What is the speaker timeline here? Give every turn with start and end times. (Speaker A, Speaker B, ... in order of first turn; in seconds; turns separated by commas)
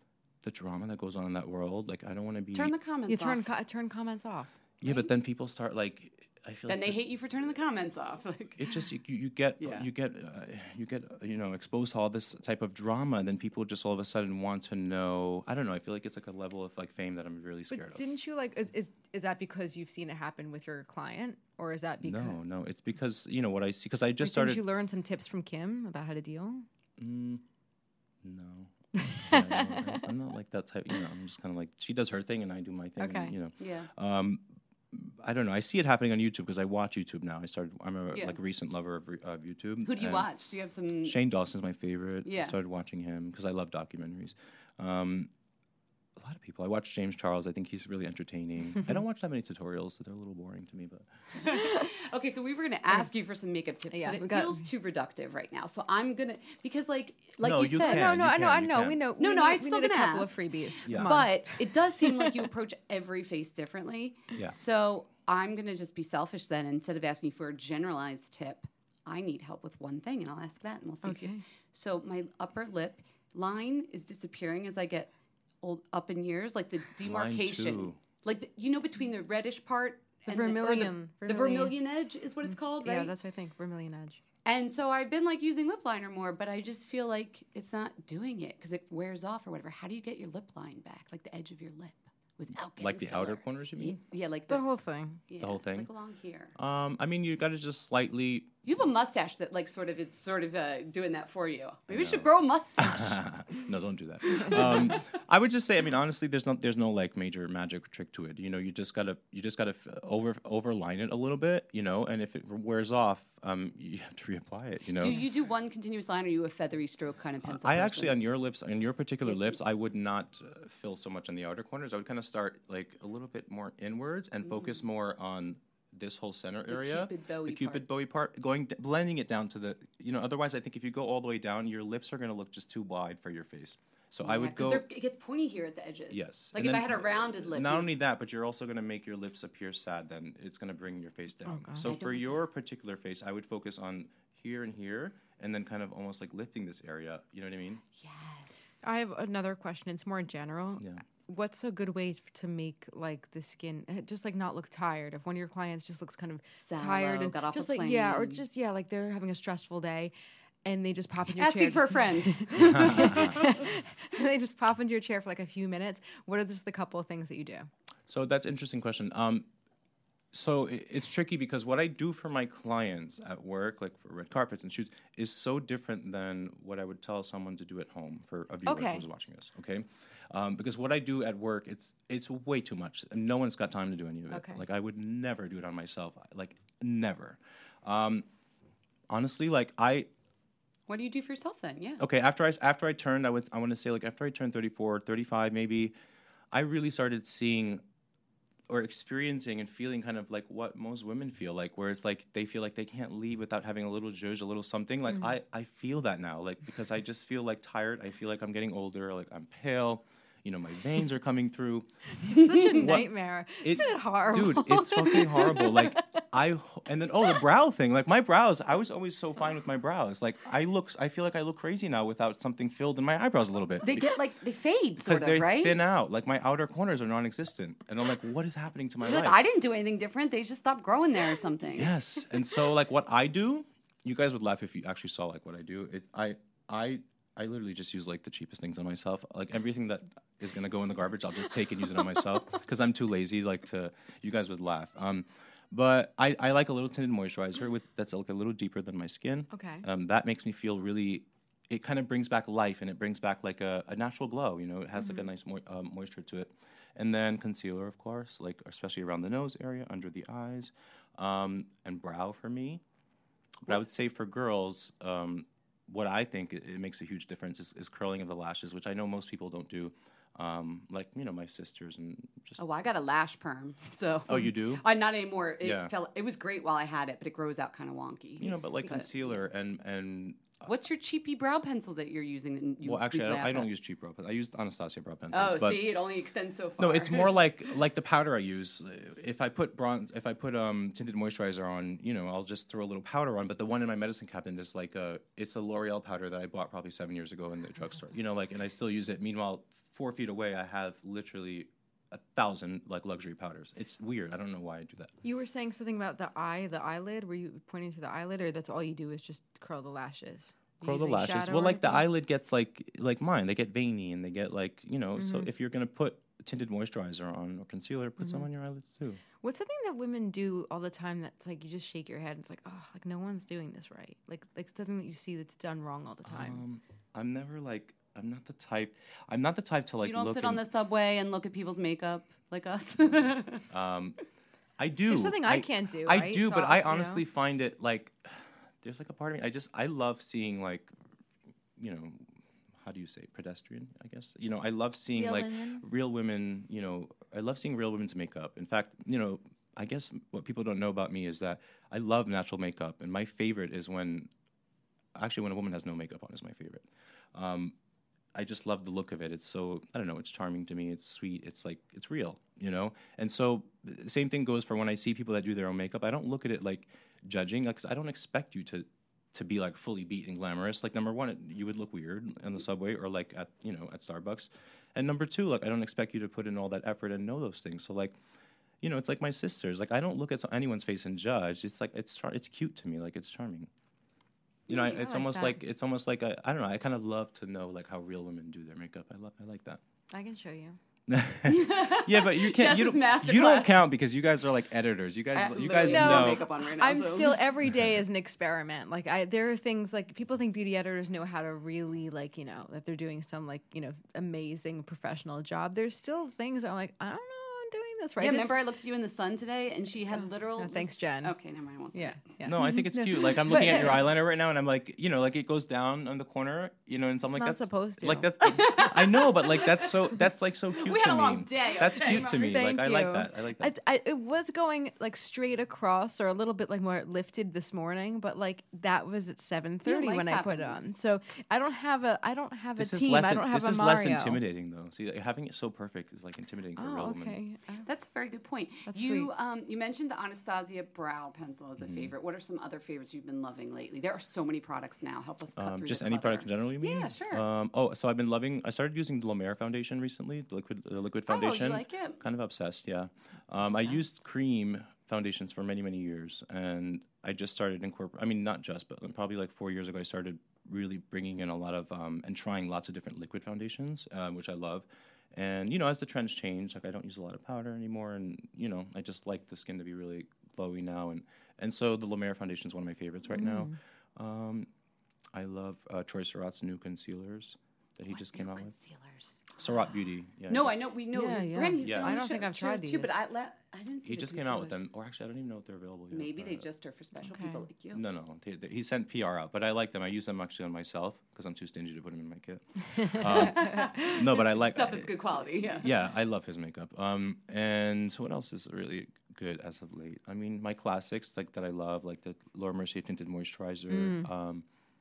Speaker A: 0.4-2.7, Speaker B: 2.5-3.5, Speaker C: 3.1-4.5, Speaker A: 4.8-7.0, Speaker B: 6.7-8.7, Speaker A: 8.6-18.0, Speaker B: 9.6-9.9, Speaker C: 17.7-22.4, Speaker A: 22.0-24.6, Speaker C: 24.2-26.6, Speaker A: 27.0-27.4, Speaker A: 28.2-40.2, Speaker C: 29.0-30.1, Speaker C: 33.0-33.3, Speaker B: 33.6-33.9, Speaker B: 38.1-38.4, Speaker B: 39.8-41.2, Speaker A: 41.0-45.3, Speaker B: 42.2-42.6, Speaker A: 46.2-51.1, Speaker B: 51.4-58.1, Speaker C: 51.4-51.9, Speaker C: 53.9-54.6, Speaker A: 57.4-59.0, Speaker C: 57.8-62.3, Speaker B: 59.2-75.1, Speaker A: 60.9-61.1, Speaker C: 71.0-71.4, Speaker B: 75.6-83.1, Speaker A: 77.0-78.0, Speaker C: 80.3-81.7, Speaker C: 82.5-84.2, Speaker B: 84.4-94.6, Speaker A: 92.8-94.0, Speaker C: 94.5-95.2, Speaker B: 95.3-96.5, Speaker A: 95.4-95.9, Speaker A: 96.5-98.5, Speaker B: 98.6-103.2, Speaker A: 101.9-115.2, Speaker B: 104.4-105.0, Speaker B: 115.0-118.2, Speaker A: 117.4-134.8, Speaker B: 119.2-119.6, Speaker B: 124.4-124.8, Speaker B: 126.7-127.8, Speaker B: 134.2-137.9, Speaker A: 136.1-147.8, Speaker C: 141.5-141.9, Speaker B: 141.8-142.4, Speaker B: 147.9-148.8, Speaker C: 148.8-160.1, Speaker B: 156.6-158.4, Speaker C: 160.6-167.7, Speaker B: 161.3-163.5, Speaker A: 162.6-163.4, Speaker A: 168.1-169.4, Speaker A: 170.3-188.2, Speaker C: 178.7-179.1, Speaker C: 184.3-184.6, Speaker A: 189.1-190.1, Speaker B: 190.9-192.0, Speaker A: 192.0-195.9, Speaker A: 196.5-197.8, Speaker A: 198.7-224.2, Speaker C: 212.2-215.9, Speaker B: 212.3-212.9, Speaker B: 223.8-225.8, Speaker A: 225.0-229.4, Speaker B: 229.0-231.9, Speaker A: 231.8-262.8, Speaker C: 249.5-249.9, Speaker C: 255.0-255.3, Speaker A: 263.6-272.6, Speaker B: 272.6-279.4, Speaker A: 274.3-274.8, Speaker A: 275.6-275.9, Speaker A: 278.4-280.6, Speaker B: 280.6-283.7, Speaker A: 282.8-285.9, Speaker B: 285.3-287.4, Speaker A: 286.8-305.1, Speaker C: 305.2-312.1, Speaker A: 310.8-319.2, Speaker C: 315.2-315.5, Speaker C: 318.2-318.5, Speaker C: 319.4-326.6, Speaker A: 326.2-330.6, Speaker B: 330.0-333.6, Speaker A: 333.7-334.2, Speaker A: 334.8-340.9, Speaker C: 335.1-337.2, Speaker A: 341.8-342.3, Speaker A: 342.8-354.3, Speaker C: 345.1-345.8, Speaker A: 355.1-357.7, Speaker A: 358.3-378.1, Speaker A: 378.8-383.7, Speaker B: 384.7-385.1, Speaker A: 384.7-389.8, Speaker C: 384.9-385.6, Speaker C: 390.1-390.8, Speaker A: 391.1-396.4, Speaker B: 391.4-393.7, Speaker B: 395.3-397.4, Speaker C: 395.8-408.5, Speaker B: 408.2-412.3, Speaker C: 410.1-411.3, Speaker C: 411.9-414.0, Speaker A: 412.4-423.7, Speaker B: 413.4-414.0, Speaker C: 417.3-418.3, Speaker B: 418.4-420.1, Speaker B: 420.8-422.6, Speaker C: 421.9-434.4, Speaker B: 429.9-430.8, Speaker A: 432.8-437.4, Speaker C: 436.8-437.8, Speaker B: 437.7-447.4, Speaker C: 438.9-439.3, Speaker A: 441.8-442.1, Speaker A: 445.6-474.7, Speaker B: 451.3-452.2, Speaker C: 473.3-473.8, Speaker A: 475.3-478.7, Speaker B: 478.1-479.8, Speaker A: 479.6-480.8, Speaker B: 480.5-484.8, Speaker C: 481.1-483.1, Speaker A: 481.8-482.2, Speaker A: 484.0-486.6, Speaker B: 486.1-488.0, Speaker C: 487.2-487.6, Speaker A: 487.9-495.1, Speaker B: 493.2-496.0, Speaker A: 495.8-504.6, Speaker C: 503.9-504.3